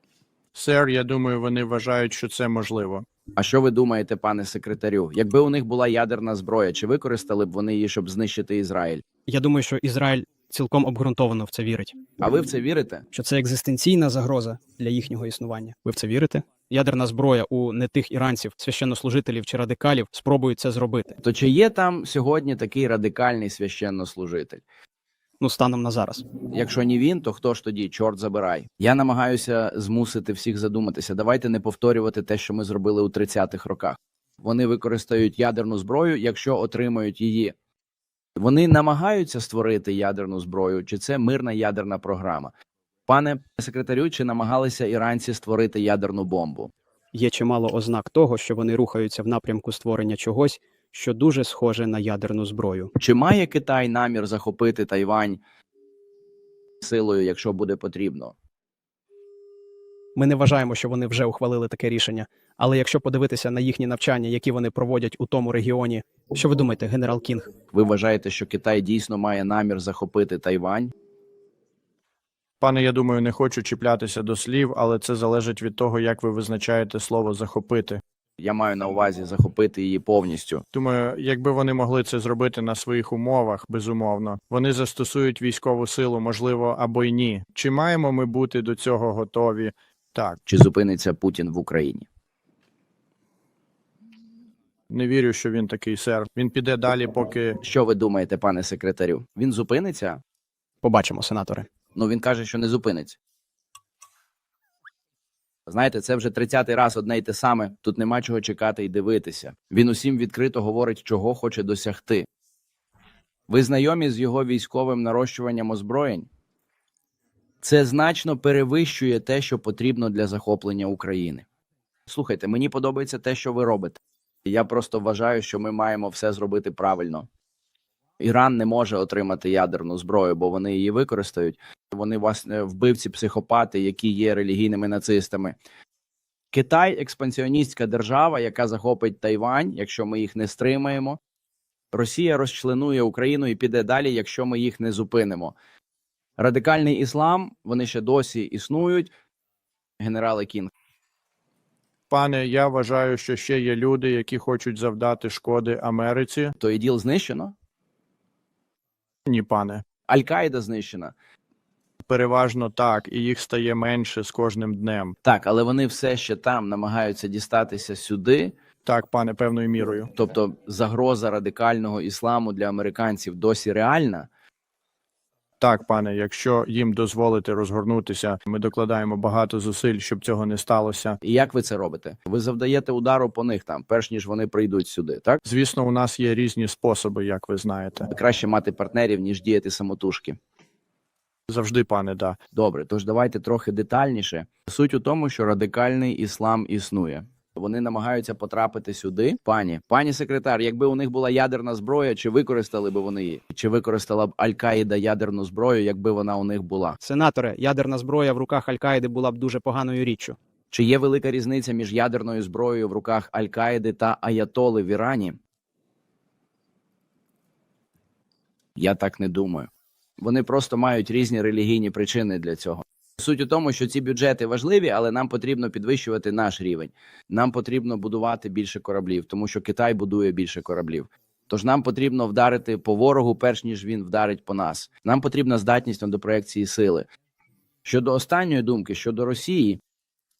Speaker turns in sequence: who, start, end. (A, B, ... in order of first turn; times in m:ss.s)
0:00.5-0:03.1 A
0:03.4-0:09.0 B
0:09.3-0:12.0 C
0:12.2-0:13.1 B
0:13.1-0:21.2 C
0:21.2-0:24.6 B
0:25.4-0:26.3 C
0:26.4-0:37.5 B
0:38.4-0:42.5 B
0:43.1-0:46.7 B
0:47.1-0:52.9 C
0:53.0-0:55.4 B
0:56.8-0:58.4 B
1:00.2-1:07.5 C
1:07.7-1:10.9 B
1:12.6-1:18.0 A
1:18.4-1:20.6 B
1:20.7-1:30.4 A
1:30.5-1:32.1 B
1:34.9-1:37.6 A
1:37.6-1:40.2 B
1:40.8-1:41.7 C
1:41.9-1:43.2 B
1:45.7-1:52.3 B
1:53.5-1:56.3 B
1:57.6-2:01.4 B
2:02.1-2:07.3 B
2:08.2-2:15.6 B
2:16.5-2:21.2 B
2:21.9-2:25.6 B
2:26.4-2:29.1 B
2:30.0-2:30.7 B
2:32.1-2:36.6 A
2:36.6-2:37.5 B
2:39.3-2:39.8 A
2:40.1-2:41.1 B
2:42.1-2:45.2 A
2:45.2-2:48.5 B
2:48.8-2:50.1 A
2:50.1-2:54.3 B
2:55.6-3:01.2 A
3:01.2-3:05.4 B
3:05.4-3:08.1 A
3:08.1-3:10.4 B
3:11.5-3:12.4 A
3:12.5-3:27.0 B
3:27.0-3:30.4 C
3:30.7-3:35.4 B
3:38.8-3:57.1 B
3:57.8-3:59.8 B